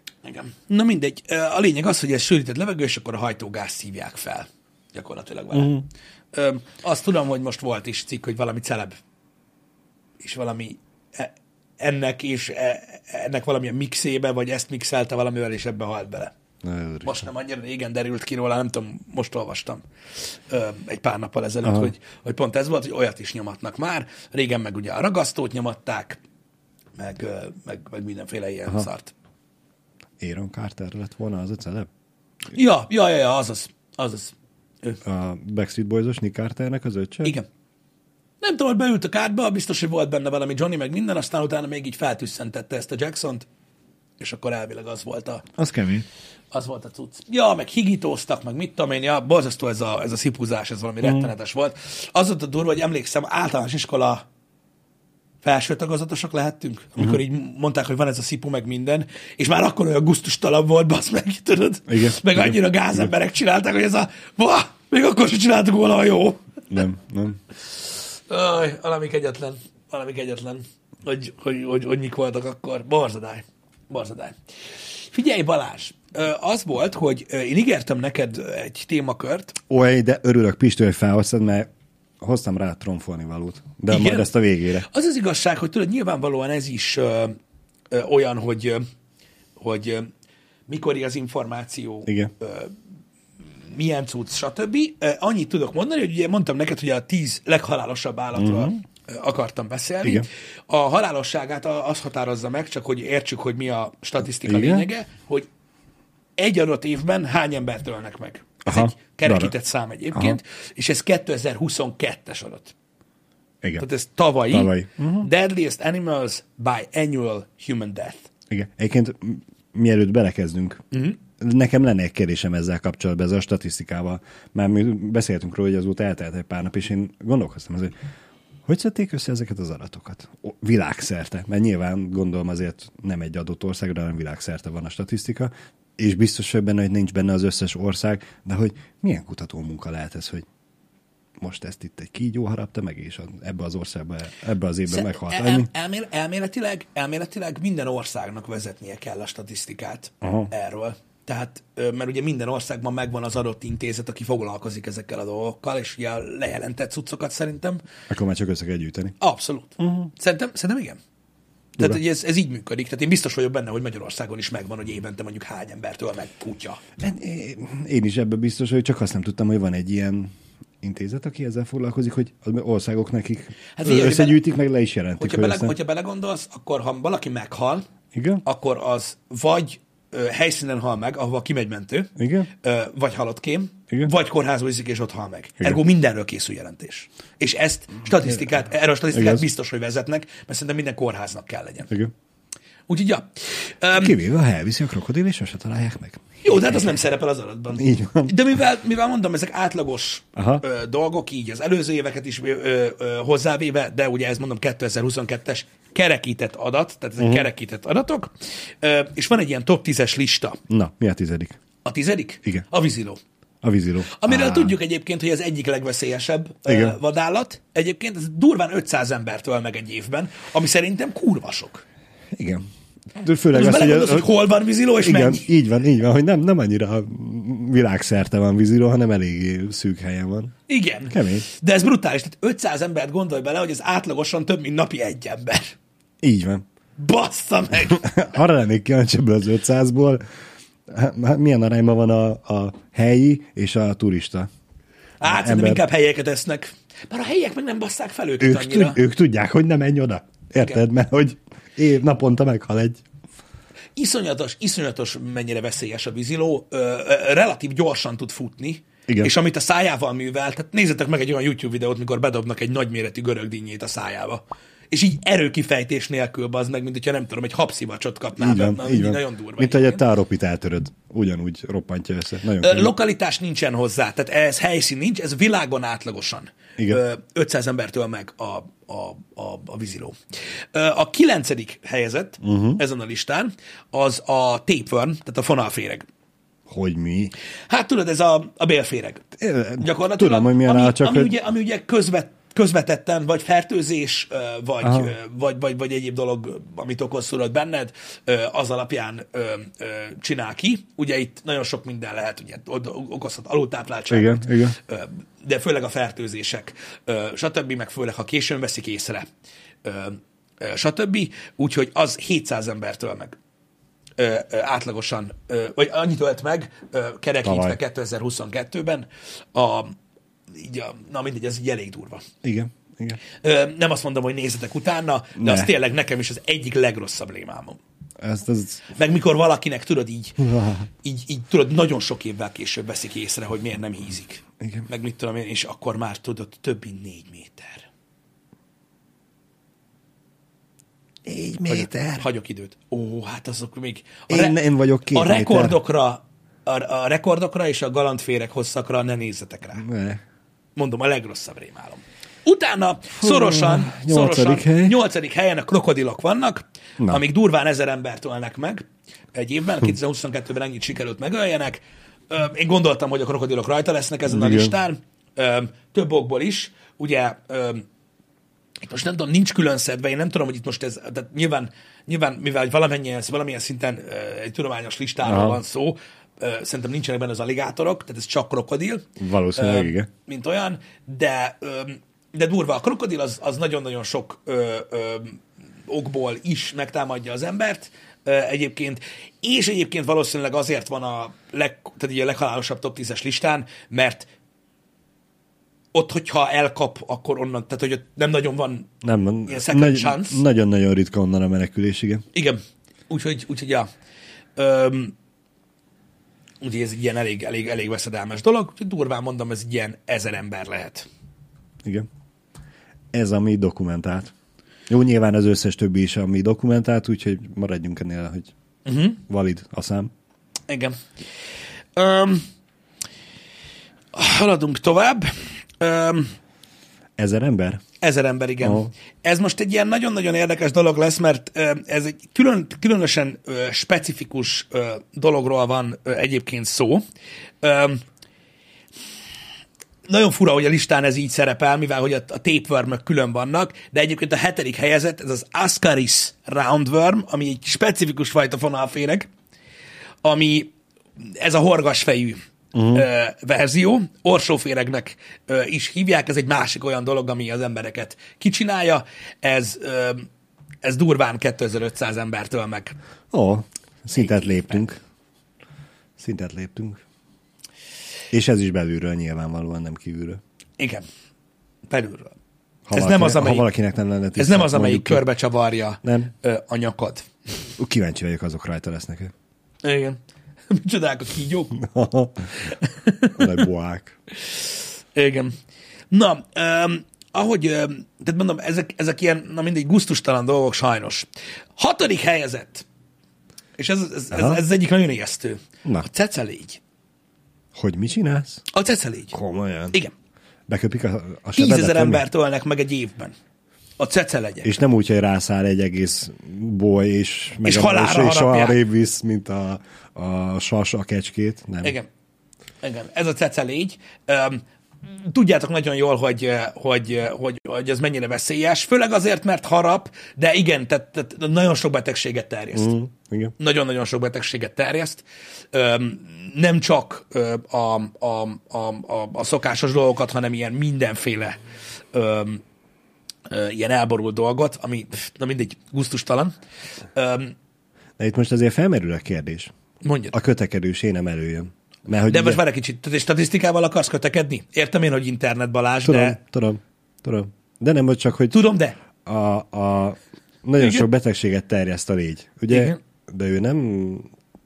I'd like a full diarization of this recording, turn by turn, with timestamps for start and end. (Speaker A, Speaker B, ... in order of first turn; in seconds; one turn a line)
Speaker A: 0.2-5.8
Speaker B: 5.5-5.9
Speaker A: 6.3-9.0
Speaker A: 10.2-16.3
Speaker B: 16.6-17.3
Speaker A: 17.0-26.2
Speaker B: 21.6-21.9
Speaker A: 27.0-29.1
Speaker B: 30.2-31.9
Speaker A: 32.5-35.0
Speaker B: 35.0-37.4
Speaker A: 38.4-43.5
Speaker A: 44.2-45.5
Speaker B: 45.6-46.1
Speaker A: 46.5-54.2
Speaker B: 51.0-51.3
Speaker A: 55.4-66.4
Speaker B: 61.9-63.1
Speaker B: 66.7-67.4
Speaker A: 68.3-74.4
Speaker A: 75.1-79.6
Speaker B: 79.7-81.7
Speaker B: 82.2-84.9
Speaker A: 83.9-87.4
Speaker A: 87.9-88.8
Speaker A: 89.6-90.1
Speaker A: 90.7-92.8
Speaker B: 92.1-92.3
Speaker A: 93.7-105.5
Speaker B: 98.4-98.8
Speaker B: 104.4-104.9
Speaker A: 106.4-112.8
Speaker B: 108.7-109.5
Speaker B: 110.1-110.4
Speaker A: 113.8-118.3
Speaker B: 114.5-115.3
Speaker B: 118.5-120.8
Speaker A: 120.9-121.2
Speaker B: 121.4-127.9
Speaker B: 128.7-140.5
Speaker B: 141.4-145.7
Speaker A: 144.9-157.8
Speaker B: 150.2-150.5
Speaker B: 158.1-159.2
Speaker A: 159.2-161.0
Speaker B: 159.8-160.1
Speaker A: 161.8-166.8
Speaker B: 167.0-170.3
Speaker B: 170.8-175.7
Speaker A: 173.8-174.4
Speaker A: 175.2-177.8
Speaker B: 178.1-178.4
Speaker A: 178.4-191.9
Speaker B: 182.2-182.5
Speaker B: 189.1-189.5
Speaker A: 192.9-194.2
Speaker B: 194.0-197.0
Speaker A: 196.4-210.6
Speaker B: 197.8-198.3
Speaker B: 200.3-200.6
Speaker B: 207.2-207.5
Speaker B: 210.7-211.6
Speaker A: 211.8-213.2
Speaker B: 213.6-214.8
Speaker A: 214.1-221.8
Speaker B: 216.7-217.0
Speaker B: 222.3-224.3
Speaker A: 223.5-225.5
Speaker B: 225.0-230.5
Speaker A: 230.7-235.8
Speaker B: 231.1-231.5
Speaker B: 236.2-236.6
Speaker A: 237.0-238.2
Speaker B: 237.8-240.2
Speaker B: 240.9-244.5
Speaker A: 245.2-249.0
Speaker B: 245.2-245.8
Speaker B: 248.4-253.0
Speaker A: 254.0-270.0
Speaker B: 259.1-259.3
Speaker B: 268.4-272.9
Speaker A: 272.6-280.2
Speaker A: 280.7-286.1
Speaker B: 282.4-282.8
Speaker B: 286.7-287.3
Speaker A: 287.7-289.2
Speaker B: 289.4-291.4
Speaker A: 289.8-309.3
Speaker B: 294.8-295.1
Speaker B: 304.1-304.8
Speaker A: 309.8-313.4
Speaker A: 314.2-320.0
Speaker B: 317.4-317.8
Speaker A: 320.5-322.2
Speaker B: 322.4-323.2
Speaker A: 323.4-327.8
Speaker B: 325.4-325.7
Speaker B: 328.2-328.8
Speaker A: 328.9-330.4
Speaker B: 330.4-330.9
Speaker A: 331.0-337.9
Speaker B: 334.6-334.9
Speaker B: 341.2-342.2
Speaker A: 341.7-344.6
Speaker B: 344.3-345.8
Speaker A: 345.1-349.9
Speaker B: 349.8-350.2
Speaker A: 350.8-367.9
Speaker B: 353.2-355.0
Speaker B: 364.3-364.7
Speaker A: 368.8-394.3
Speaker B: 375.2-375.6
Speaker B: 379.2-380.1
Speaker A: 395.9-398.9
Speaker B: 399.0-402.2
Speaker A: 399.5-400.4
Speaker A: 402.3-403.9
Speaker A: 404.6-405.1
Speaker A: 406.6-411.1
Speaker B: 413.1-414.3
Speaker B: 414.9-418.5
Speaker A: 418.9-419.2
Speaker B: 419.3-420.1
Speaker A: 420.7-421.1
Speaker A: 422.0-422.4
Speaker A: 424.1-426.3
Speaker B: 427.2-427.8
Speaker A: 428.0-437.0
Speaker B: 428.6-428.9
Speaker A: 437.6-438.0
Speaker A: 440.1-449.3
Speaker A: 450.2-460.3
Speaker B: 452.7-453.1
Speaker A: 460.8-463.0
Speaker B: 463.3-465.0
Speaker A: 464.2-464.8
Speaker B: 466.2-467.0
Speaker B: 468.3-470.4
Speaker A: 470.8-471.1
Speaker A: 471.9-472.4
Speaker B: 472.9-475.2
Speaker A: 472.9-473.7
Speaker A: 474.4-477.3
Speaker B: 476.0-476.3
Speaker B: 477.8-479.3
Speaker A: 479.8-480.2
Speaker A: 480.7-481.8
Speaker B: 481.8-482.7
Speaker A: 482.7-483.6
Speaker B: 483.4-484.1
Speaker A: 484.4-485.6
Speaker A: 486.1-492.9
Speaker A: 493.8-496.8
Speaker B: 494.3-494.6
Speaker B: 497.8-498.6
Speaker A: 498.7-499.4
Speaker B: 499.3-499.9
Speaker B: 500.7-502.2
Speaker A: 501.6-503.4
Speaker A: 504.0-504.7
Speaker B: 504.6-512.0
Speaker A: 507.6-508.8
Speaker A: 511.8-512.1
Speaker A: 512.8-523.0
Speaker B: 522.8-523.5
Speaker A: 523.6-531.6
Speaker A: 532.1-532.6
Speaker A: 533.5-536.5
Speaker A: 537.1-537.5
Speaker B: 538.2-539.7
Speaker A: 540.0-540.3
Speaker B: 540.3-542.6
Speaker A: 542.3-546.4
Speaker B: 546.0-548.7
Speaker A: 548.5-549.0
Speaker B: 549.2-554.3
Speaker A: 550.8-551.0
Speaker A: 552.7-553.0